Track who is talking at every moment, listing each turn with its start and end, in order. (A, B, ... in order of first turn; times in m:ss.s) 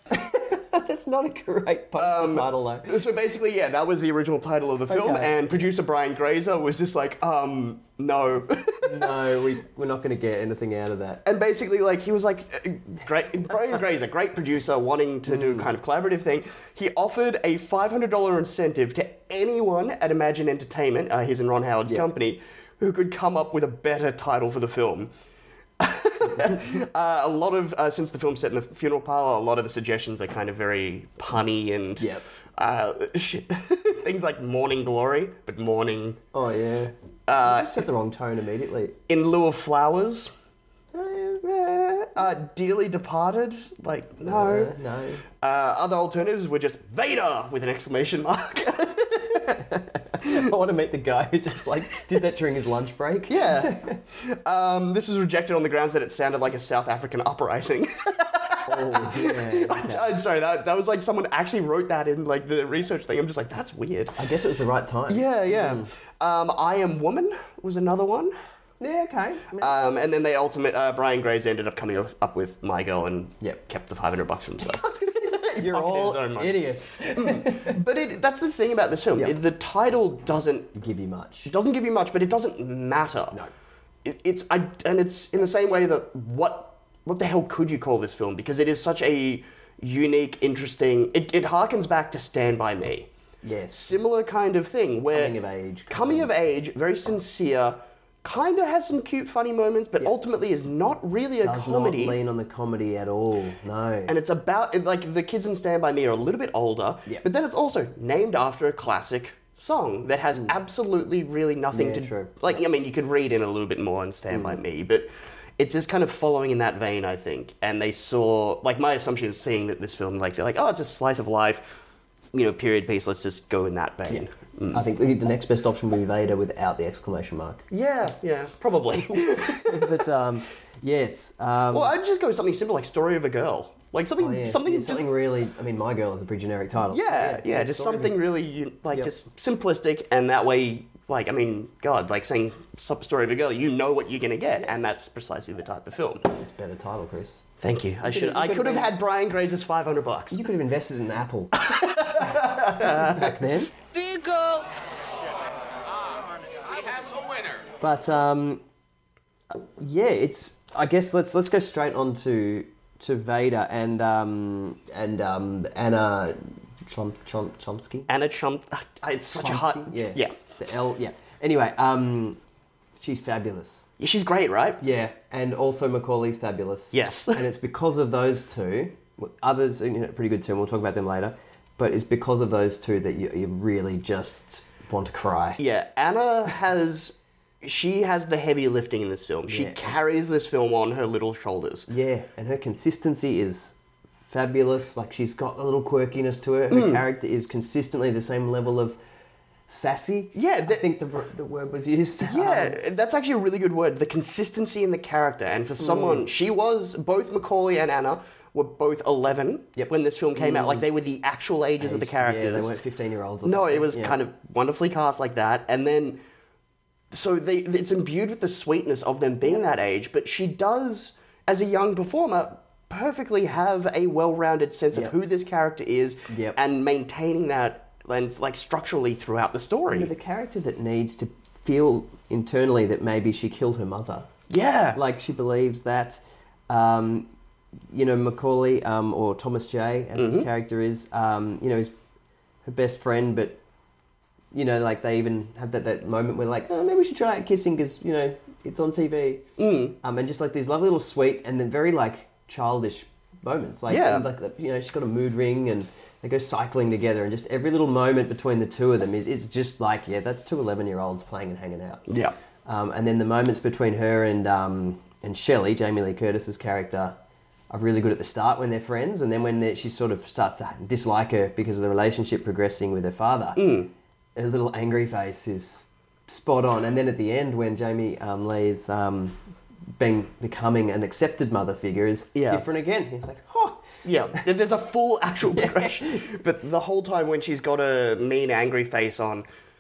0:00.1-0:03.0 A
0:02.0-0:09.1 B
0:04.9-0:05.4 A
0:08.8-0:11.2 A
0:11.2-0:25.1 B
0:15.3-0:15.7 A
0:25.8-0:36.2 B
0:26.4-0:26.6 A
0:32.0-0:32.2 A
0:36.3-0:39.0 A
0:37.3-0:37.8 B
0:39.1-0:40.3 B
0:40.9-0:41.6 A
0:41.5-0:44.7 B
0:44.3-0:45.2 A
0:45.4-0:49.2 B
0:49.2-0:54.0 A
0:53.3-1:04.2 B
0:58.7-1:00.1 A
1:04.2-1:05.9 A
1:05.1-1:08.4 B
1:08.8-1:09.7 A
1:09.6-1:16.6 B
1:14.6-1:17.8 A
1:17.2-1:20.7 B
1:20.7-1:21.5 A
1:21.4-1:23.4 B
1:24.0-1:33.1 B
1:33.4-1:34.0 A
1:33.7-1:35.4 B
1:35.1-1:36.3 A
1:35.9-1:42.2 B
1:41.4-1:44.2 A
1:44.1-2:01.8 B
1:51.7-1:52.6 A
1:54.3-1:54.6 A
2:02.3-2:04.8 B
2:04.1-2:07.7 A
2:07.7-2:10.0 B
2:09.1-2:11.9 A
2:11.7-2:15.1 B
2:14.2-2:18.2 A
2:16.9-2:26.3 B
2:24.6-2:25.0 A
2:26.3-2:27.5 A
2:27.6-2:30.4 B
2:28.0-2:28.9 A
2:30.3-2:33.7 A
2:31.6-2:33.4 B
2:37.8-2:38.6 A
2:39.5-2:48.1 A
2:48.1-2:50.4 B
2:49.4-2:52.4 A
2:53.0-2:53.9 A
2:54.0-2:54.8 B
2:54.8-3:05.6 A
2:56.9-2:57.4 B
3:05.6-3:11.9 B
3:09.5-3:10.0 A
3:11.9-3:13.7 A
3:14.3-3:19.0 A
3:16.7-3:17.0 B
3:19.7-3:22.8 A
3:20.4-3:20.8 B
3:22.2-3:32.7 B
3:25.8-3:26.3 A
3:29.8-3:30.9 A
3:31.8-3:34.2 A
3:33.4-3:36.2 B
3:37.1-3:50.1 B
3:46.3-3:46.6 A
3:49.9-3:54.3 A
3:54.5-3:55.0 B
3:54.9-3:57.3 A
3:57.9-4:01.9 A
4:00.2-4:00.5 B
4:02.6-4:03.6 A
4:04.5-4:09.5 A
4:09.6-4:10.0 B
4:10.0-4:22.0 A
4:13.9-4:14.3 B
4:22.1-4:22.3 B
4:22.6-4:27.2 A
4:27.7-4:33.6 A
4:33.6-4:33.9 B
4:34.4-4:39.4 A
4:40.0-4:43.9 A
4:42.3-4:42.6 B
4:44.0-4:49.5 B
4:45.5-4:46.2 A